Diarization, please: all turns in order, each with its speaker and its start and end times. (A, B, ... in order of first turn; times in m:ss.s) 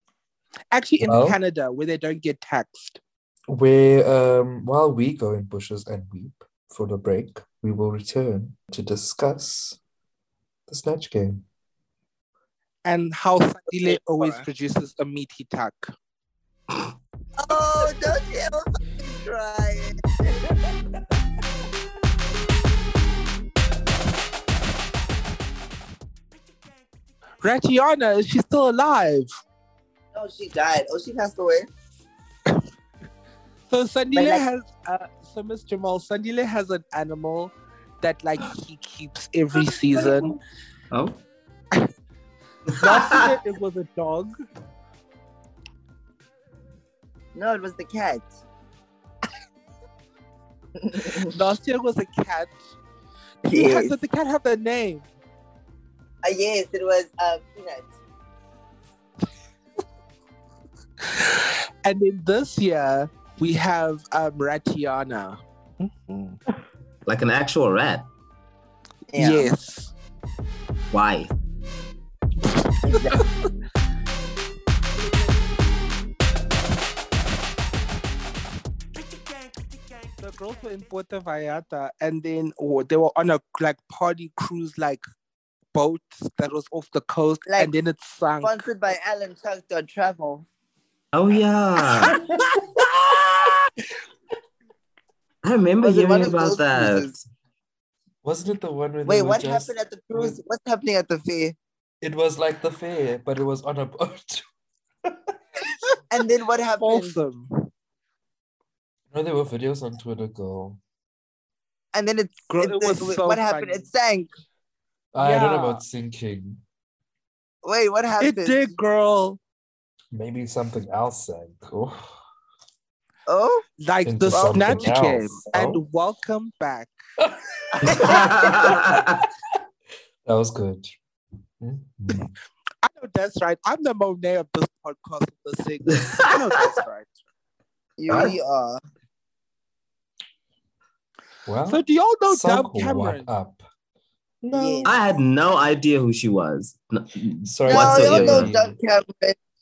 0:00.7-0:03.0 A
0:01.0-0:01.4 B
0:03.5-0:09.8 B
0:10.7-0:11.4 B
0:12.8-0:15.9 A
0:13.8-0:14.4 C
0:17.4-0:20.4 C
0:27.4-0:29.3 A
0:30.1-0:31.7 C
0:33.7-0:40.4 A
0:34.1-0:34.4 C
0:40.9-0:41.2 D
0:42.7-0:43.4 D
0:42.8-0:44.3 A
0:47.4-0:48.3 C
0:50.8-0:51.3 C
0:51.2-0:52.6 A
0:53.5-0:54.0 C
0:53.5-0:55.1 A
0:56.2-0:57.9 C
1:01.0-1:05.4 A
1:07.1-1:08.0 D
1:09.1-1:09.5 C
1:09.2-1:09.9 A
1:10.9-1:11.3 D
1:12.8-1:13.2 C
1:12.9-1:13.2 A
1:20.2-1:25.0 A
1:25.7-1:28.6 A
1:27.5-1:27.7 C
1:28.4-1:30.5 C
1:31.1-1:32.2 D
1:32.0-1:32.9 A
1:35.4-1:37.2 D
1:35.8-1:37.1 C
1:38.2-1:40.4 B
1:39.0-1:41.6 C
1:42.0-1:44.5 B
1:46.1-1:47.2 C
1:46.8-1:47.7 A
1:49.1-1:50.8 B
1:51.9-1:54.3 C
1:52.5-1:53.8 A
1:55.1-1:56.6 B
1:55.2-1:55.8 A
1:57.6-1:58.8 C
1:58.2-1:59.4 A
2:00.1-2:02.1 B
2:03.3-2:03.7 C
2:03.8-2:06.9 A
2:04.0-2:05.8 B
2:04.3-2:04.9 C
2:07.2-2:09.0 B
2:07.9-2:08.2 A
2:07.9-2:09.2 D
2:10.3-2:10.9 B
2:11.6-2:12.3 B
2:12.8-2:17.1 A
2:18.0-2:18.8 C
2:21.5-2:23.6 B
2:21.7-2:23.3 A
2:24.4-2:25.0 B
2:24.5-2:25.0 C
2:24.8-2:28.5 D
2:27.4-2:28.8 B
2:27.7-2:29.4 C